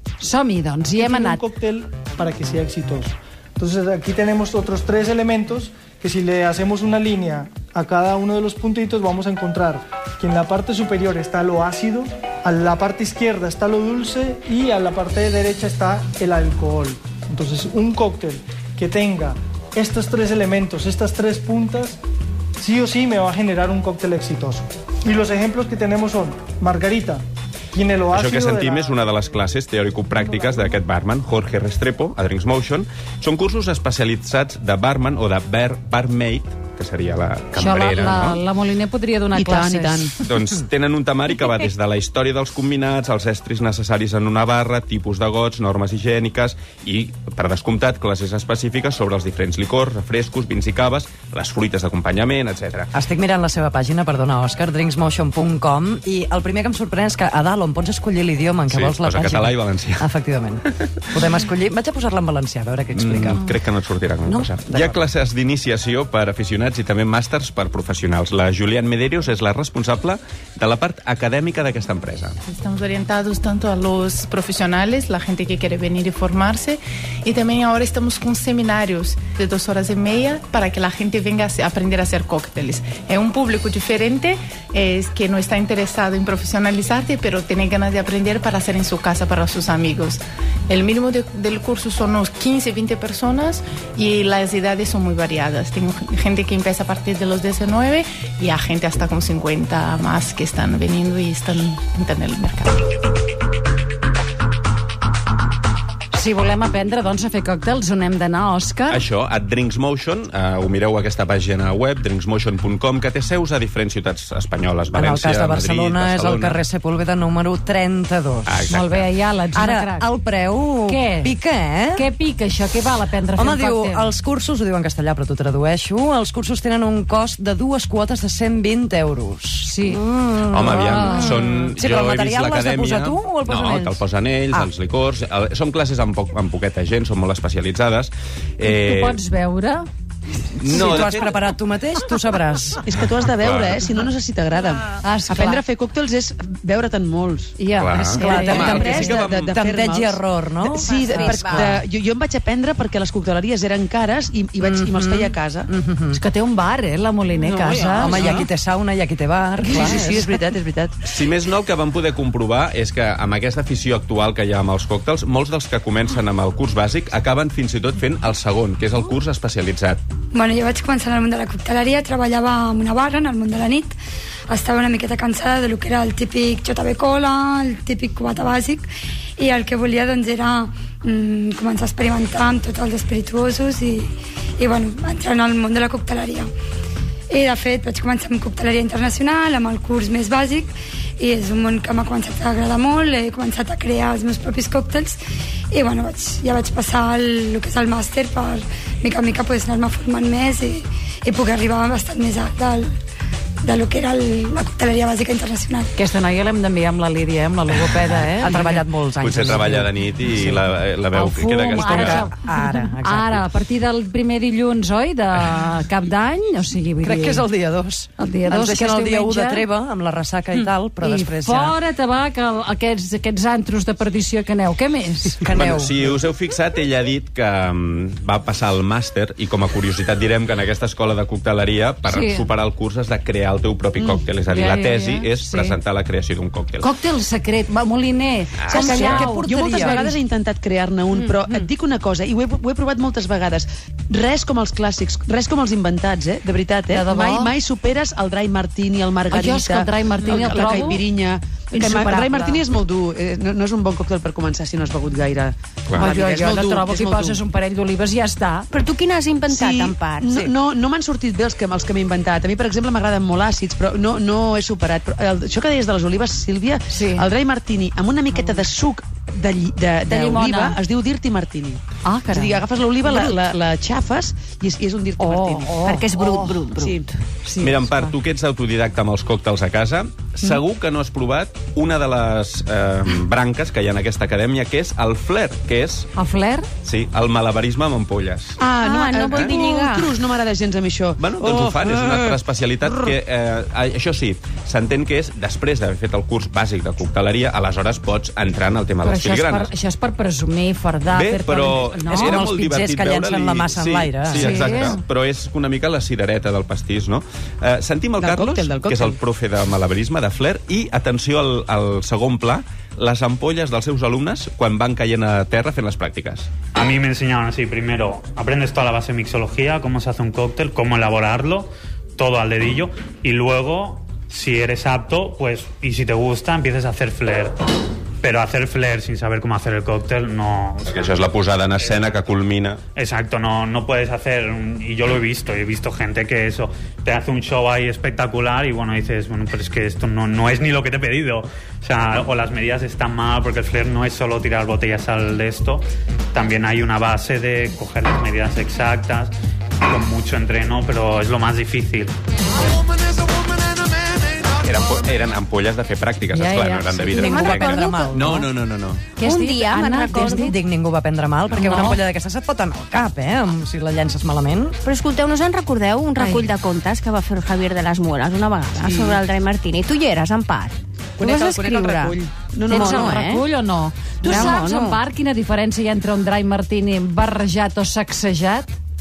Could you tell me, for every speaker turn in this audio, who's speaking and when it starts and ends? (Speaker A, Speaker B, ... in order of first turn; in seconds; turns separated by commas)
Speaker A: 0.2-1.4, Speaker B: 1.0-22.0, Speaker B: 22.6-28.9, Speaker C: 28.1-38.4, Speaker A: 37.6-40.1, Speaker D: 39.3-40.1, Speaker C: 40.2-52.9, Speaker E: 52.9-63.5, Speaker C: 58.7-60.1, Speaker C: 62.9-72.4, Speaker E: 64.3-65.0, Speaker F: 72.5-103.0, Speaker A: 106.1-109.0, Speaker C: 108.9-116.6, Speaker E: 114.9-118.6, Speaker C: 118.5-119.1, Speaker A: 118.7-120.1, Speaker E: 119.5-122.1, Speaker A: 120.9-121.3, Speaker A: 122.0-124.1, Speaker E: 123.4-134.0, Speaker A: 129.7-130.0, Speaker C: 130.5-139.2, Speaker A: 130.7-131.4, Speaker A: 138.6-139.9, Speaker C: 140.6-141.3, Speaker E: 140.6-142.8, Speaker D: 142.8-147.5, Speaker C: 143.3-143.7, Speaker A: 145.0-145.6, Speaker A: 147.6-149.2, Speaker C: 147.8-149.6, Speaker E: 148.2-151.7, Speaker D: 148.2-155.7, Speaker G: 150.8-151.8, Speaker E: 154.6-156.2, Speaker A: 156.1-158.3, Speaker D: 157.7-158.5, Speaker E: 158.0-160.3, Speaker D: 159.6-160.9, Speaker C: 161.1-170.0, Speaker H: 170.3-173.9, Speaker H: 174.5-178.9, Speaker H: 179.4-186.5, Speaker H: 187.3-195.2, Speaker H: 195.7-202.9, Speaker H: 203.6-205.9, Speaker A: 205.9-208.8, Speaker E: 207.9-210.6, Speaker C: 209.2-212.3, Speaker A: 211.1-217.4, Speaker E: 211.7-213.4, Speaker E: 217.0-221.8, Speaker A: 218.2-219.7, Speaker A: 220.6-225.5, Speaker E: 225.4-226.0, Speaker C: 225.5-236.9, Speaker A: 232.1-232.5, Speaker D: 234.0-234.2, Speaker A: 234.5-235.8, Speaker A: 236.8-240.2, Speaker C: 238.6-239.2, Speaker D: 238.7-257.4, Speaker E: 239.0-240.0, Speaker A: 246.9-247.5, Speaker A: 249.3-251.1, Speaker A: 251.7-252.6, Speaker A: 256.0-258.7, Speaker G: 258.7-260.5, Speaker D: 259.5-277.1, Speaker A: 266.9-267.3, Speaker A: 270.1-270.8, Speaker A: 272.0-272.6, Speaker A: 275.2-276.7, Speaker G: 275.9-277.0, Speaker A: 277.4-278.1, Speaker C: 277.6-286.1, Speaker A: 286.1-286.7, Speaker C: 286.8-288.6, Speaker D: 288.6-292.4, Speaker G: 288.8-290.1, Speaker C: 289.2-289.6, Speaker C: 291.2-299.7, Speaker A: 299.0-302.4, Speaker C: 301.1-316.5, Speaker E: 302.1-304.8, Speaker A: 304.3-305.0, Speaker D: 308.2-309.2, Speaker I: 316.7-327.6, Speaker I: 328.2-331.2, Speaker C: 330.9-332.8, Speaker I: 331.8-332.2, Speaker I: 332.9-349.3, Speaker I: 349.9-352.1, Speaker C: 354.6-359.1, Speaker A: 356.3-357.3, Speaker E: 356.6-358.5, Speaker G: 357.2-358.1, Speaker A: 359.2-360.6, Speaker G: 359.2-360.5, Speaker E: 360.3-364.8, Speaker A: 361.5-362.0, Speaker G: 364.8-372.2, Speaker A: 366.2-366.4, Speaker D: 368.8-369.2, Speaker D: 371.2-373.3, Speaker G: 372.7-373.4, Speaker A: 372.7-378.8, Speaker D: 374.2-374.6, Speaker G: 374.2-375.0